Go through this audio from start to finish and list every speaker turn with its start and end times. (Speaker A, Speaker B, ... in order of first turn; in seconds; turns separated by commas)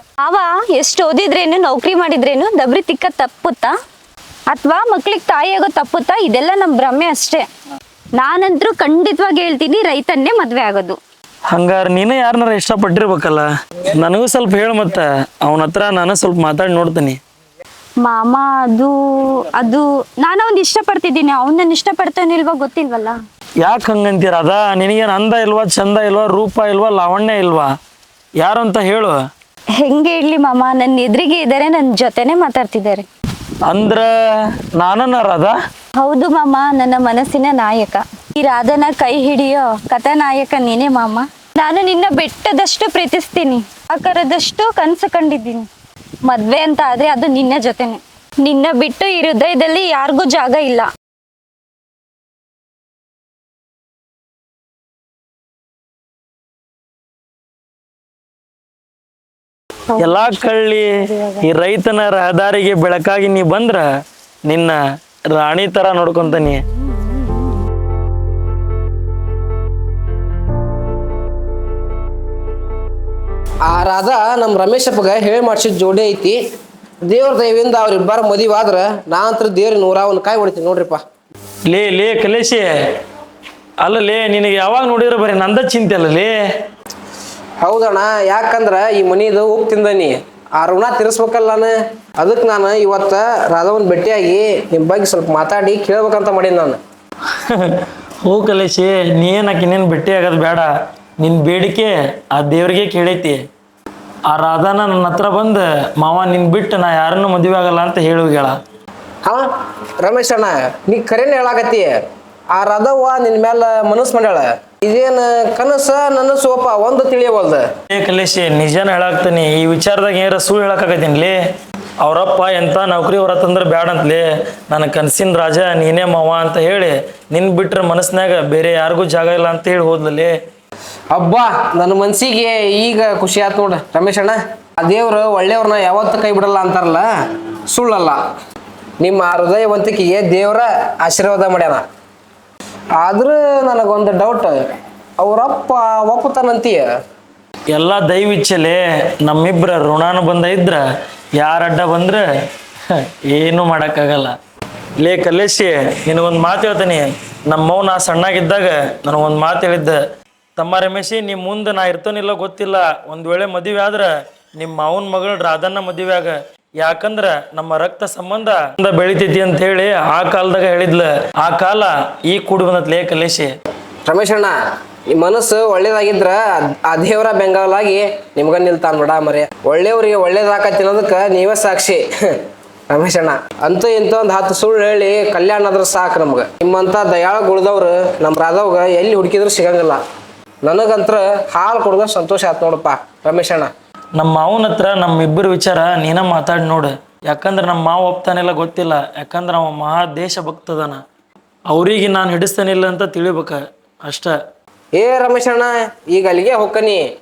Speaker A: 0.2-3.7, Speaker A: 4.5-7.5, Speaker A: 8.2-11.0, Speaker B: 11.5-17.2, Speaker A: 18.0-23.2, Speaker B: 23.6-27.7, Speaker B: 28.4-29.2, Speaker A: 29.8-33.1, Speaker B: 33.6-35.5, Speaker A: 36.0-45.7, Speaker A: 46.2-50.9, Speaker B: 60.0-60.9, Speaker A: 61.1-61.4, Speaker B: 61.4-63.9, Speaker B: 64.5-64.8, Speaker B: 65.3-66.6, Speaker C: 73.6-76.4, Speaker C: 77.0-81.0, Speaker B: 81.7-83.0, Speaker B: 83.8-86.3, Speaker C: 87.6-96.8, Speaker B: 97.3-103.4, Speaker B: 104.3-108.5, Speaker C: 110.0-117.7, Speaker B: 117.9-121.4, Speaker B: 122.0-130.3, Speaker C: 131.1-137.1, Speaker C: 137.7-138.2, Speaker C: 139.0-141.8, Speaker C: 143.0-144.6, Speaker C: 145.2-146.9, Speaker B: 147.7-150.8, Speaker B: 151.4-152.2, Speaker B: 152.9-154.3, Speaker B: 155.0-160.0, Speaker B: 160.6-173.5, Speaker C: 174.1-174.5, Speaker C: 175.1-182.4, Speaker C: 182.9-190.0, Speaker C: 190.6-193.7, Speaker B: 194.1-201.0, Speaker B: 201.7-204.3, Speaker C: 204.9-207.0